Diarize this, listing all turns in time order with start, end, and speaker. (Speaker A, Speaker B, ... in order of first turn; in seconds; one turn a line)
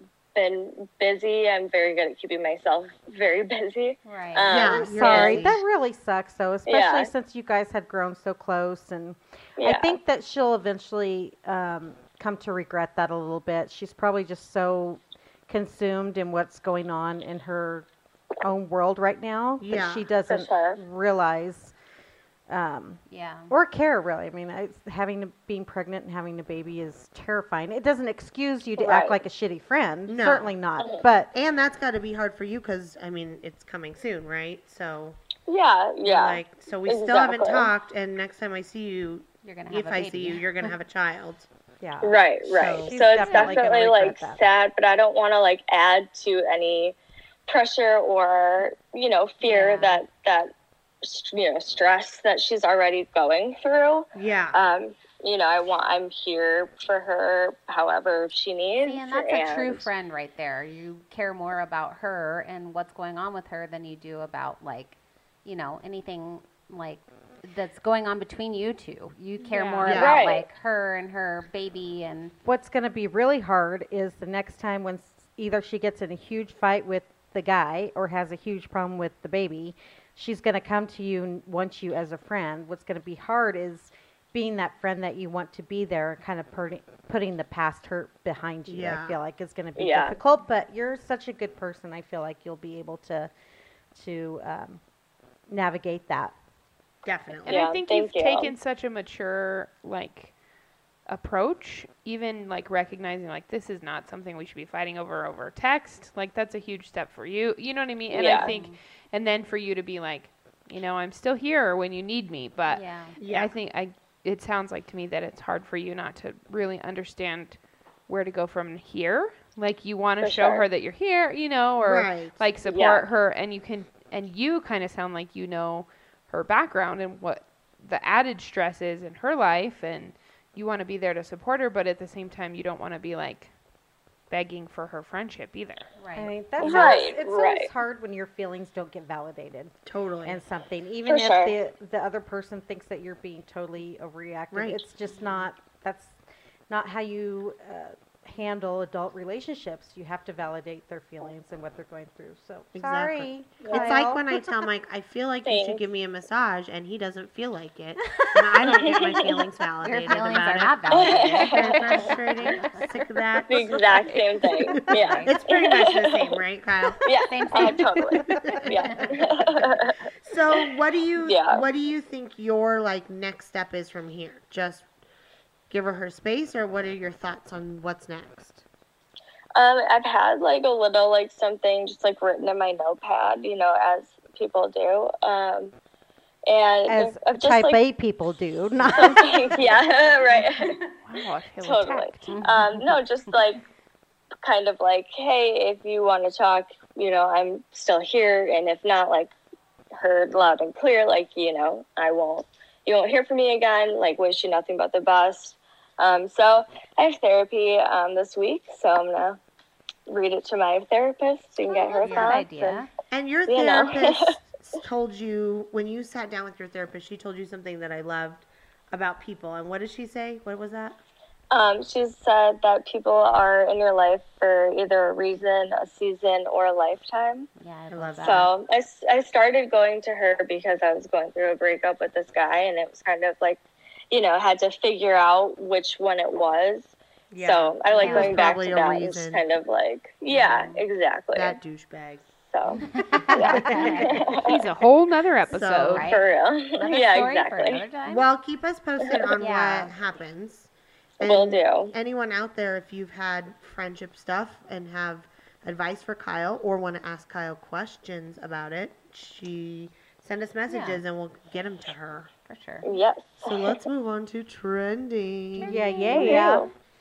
Speaker A: 0.3-5.4
Speaker B: 4.0-4.5
Speaker C: 4.5-5.6
Speaker D: 4.6-17.9
Speaker A: 6.7-7.1
Speaker A: 9.6-10.0
Speaker D: 18.4-21.7
Speaker C: 19.6-20.1
Speaker A: 20.3-20.8
Speaker D: 22.5-31.3
Speaker B: 23.1-23.5
Speaker A: 28.8-29.2
Speaker C: 30.1-30.5
Speaker A: 30.8-31.0
Speaker C: 31.3-35.2
Speaker A: 35.5-37.7
Speaker C: 36.0-41.5
Speaker B: 39.4-40.5
Speaker D: 41.8-42.2
Speaker A: 42.0-50.5
Speaker C: 42.4-42.9
Speaker D: 42.8-44.4
Speaker E: 43.2-43.5
Speaker B: 49.4-50.0
Speaker A: 51.0-59.9
Speaker C: 54.1-54.6
Speaker B: 58.8-72.3
Speaker E: 69.4-70.0
Speaker C: 69.8-70.3
Speaker A: 69.8-70.5
Speaker D: 72.4-93.3
Speaker C: 88.7-89.2
Speaker A: 89.8-90.2
Speaker D: 93.9-94.8
Speaker D: 95.5-96.3
Speaker C: 97.0-97.6
Speaker E: 97.4-100.3
Speaker A: 97.5-98.5
Speaker E: 101.0-133.5
Speaker A: 108.1-108.5
Speaker B: 108.4-108.8
Speaker B: 112.7-113.2
Speaker C: 113.2-113.5
Speaker A: 120.2-120.7
Speaker C: 121.8-122.4
Speaker A: 122.7-123.0
Speaker E: 134.3-135.9
Speaker B: 136.0-136.3
Speaker D: 136.2-146.1
Speaker A: 136.6-137.7
Speaker C: 139.8-140.4
Speaker A: 141.1-141.5
Speaker C: 144.5-144.8
Speaker D: 146.7-154.2
Speaker C: 152.7-164.2
Speaker A: 153.6-153.9
Speaker A: 155.4-155.8
Speaker A: 158.7-159.4
Speaker B: 159.8-162.8
Speaker A: 160.9-162.0
Speaker A: 163.5-166.4
Speaker C: 164.7-167.0
Speaker B: 164.9-165.3
Speaker A: 167.0-169.9
Speaker B: 167.2-168.0
Speaker D: 168.0-168.6
Speaker C: 168.2-169.7
Speaker B: 168.6-169.2
Speaker C: 170.2-174.8
Speaker A: 171.2-171.6
Speaker C: 175.7-178.6
Speaker A: 179.5-185.7
Speaker A: 186.5-187.8
Speaker D: 186.9-189.7
Speaker A: 188.9-190.8
Speaker E: 191.0-192.4
Speaker A: 191.6-193.6
Speaker B: 192.3-192.6
Speaker A: 194.4-199.3
Speaker A: 199.9-209.4
Speaker A: 210.1-212.8
Speaker B: 211.7-212.9
Speaker C: 212.0-212.4
Speaker C: 213.1-221.0
Speaker A: 213.5-214.3
Speaker A: 221.5-227.5
Speaker B: 227.6-228.5
Speaker C: 227.9-228.5
Speaker A: 228.2-241.6
Speaker C: 237.3-239.4
Speaker B: 238.0-238.4
Speaker B: 240.3-240.8
Speaker C: 241.3-242.3
Speaker A: 242.5-242.8
Speaker B: 242.8-244.2
Speaker A: 243.3-244.6
Speaker C: 243.4-244.2
Speaker D: 243.5-244.0
Speaker E: 244.3-246.1
Speaker C: 245.5-246.0
Speaker B: 245.9-248.2
Speaker A: 246.0-247.8
Speaker C: 248.1-262.3
Speaker B: 249.4-249.9
Speaker A: 251.2-251.9
Speaker B: 260.7-261.0
Speaker B: 262.5-262.9
Speaker A: 262.8-263.8
Speaker C: 263.4-265.8
Speaker B: 265.6-266.5
Speaker D: 265.6-266.7
Speaker A: 266.1-266.7